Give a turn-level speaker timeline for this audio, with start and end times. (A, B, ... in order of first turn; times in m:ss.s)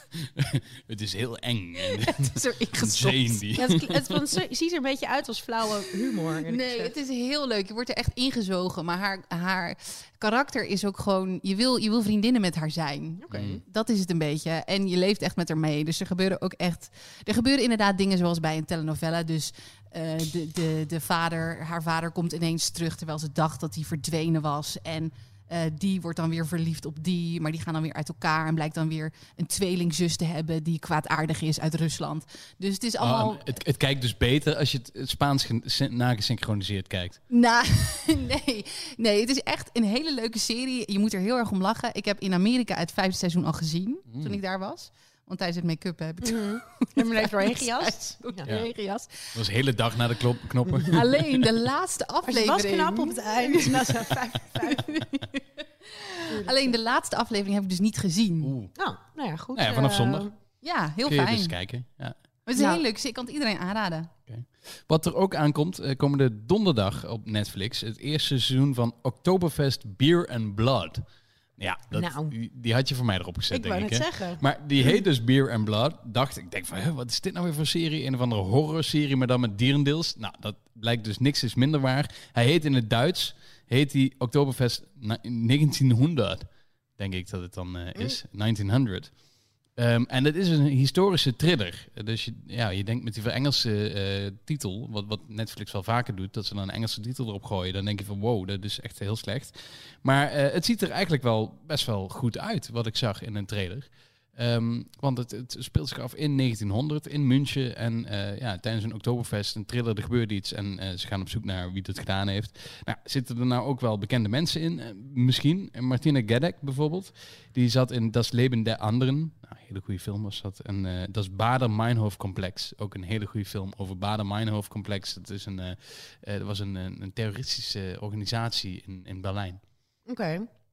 0:00.1-0:03.9 A
0:01.8-0:03.4 B
0:03.5-0:06.9 C
0:06.4-0:33.5 B
0:13.2-0:13.6 C
0:13.3-0:13.6 A
0:33.0-0:37.2 A
0:37.3-0:49.4 B
0:44.1-0:44.4 A
0:46.2-0:48.5 C
0:49.3-0:51.4 A
0:50.8-0:58.5 B
0:52.2-0:55.0 C
0:56.3-0:56.7 C
0:58.4-0:58.7 A
0:58.8-1:00.3 C
0:59.5-1:00.3 A
1:00.6-1:01.6 B
1:01.0-1:02.2 A
1:02.4-1:04.1 B
1:02.6-1:02.8 C
1:04.3-1:11.0 A
1:11.6-1:29.1 A
1:11.9-1:12.3 C
1:13.5-1:14.9 C
1:29.8-2:09.6 A
2:10.0-2:10.5 C